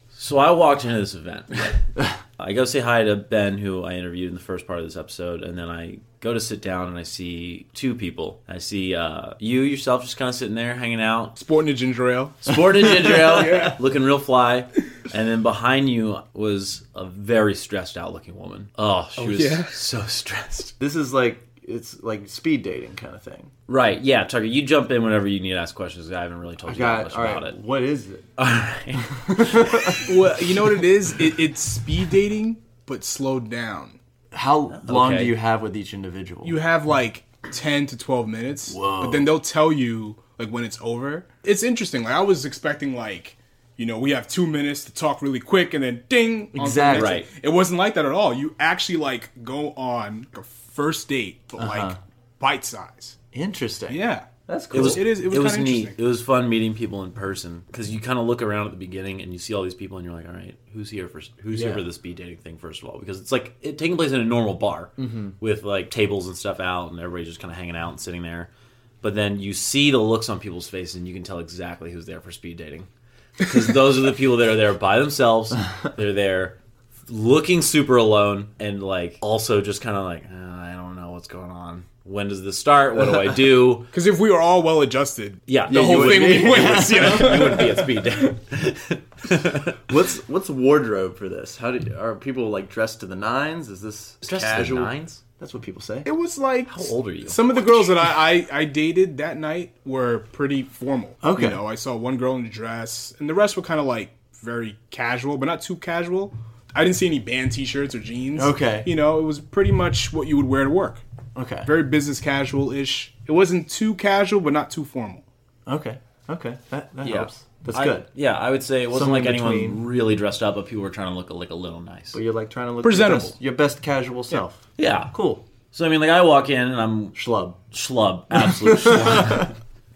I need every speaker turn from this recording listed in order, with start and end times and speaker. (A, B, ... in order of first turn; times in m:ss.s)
0:00.1-0:11.4 A
0:11.4-0:13.8 B
0:12.4-0:20.8 A
0:19.2-0:19.8 B
0:20.8-0:23.5 C
0:23.7-0:27.6 A
0:26.6-0:28.3 C
0:28.4-0:30.1 A
0:29.3-0:30.0 C
0:30.0-0:34.0 B
0:34.3-0:36.6 C
0:34.7-0:35.4 A
0:36.4-0:53.2 B
0:38.7-0:39.4 C
0:46.6-0:47.2 C
0:46.9-0:47.3 A
0:51.6-0:52.0 C
0:53.3-0:55.1 C
0:53.9-0:56.0 B
0:54.7-1:08.5 A
1:01.5-1:01.9 C
1:05.0-1:05.3 C
1:09.0-1:12.9 A
1:13.4-1:16.6 A
1:17.1-1:23.9 A
1:23.9-1:28.3 B
1:25.5-1:29.8 A
1:25.6-1:27.7 C
1:29.9-1:36.1 C
1:34.2-1:35.2 A
1:36.0-1:51.0 B
1:36.6-1:37.8 A
1:41.2-1:41.6 C
1:48.4-1:48.9 C
1:51.4-1:51.7 C
1:51.6-1:55.2 B
1:55.6-1:58.1 C
1:57.0-2:02.2 A
1:58.9-1:59.8 C
2:02.1-2:05.4 C
2:02.8-2:03.4 B
2:04.8-2:05.1 A
2:05.7-2:09.6 A
2:07.1-2:07.6 C
2:08.3-2:09.5 C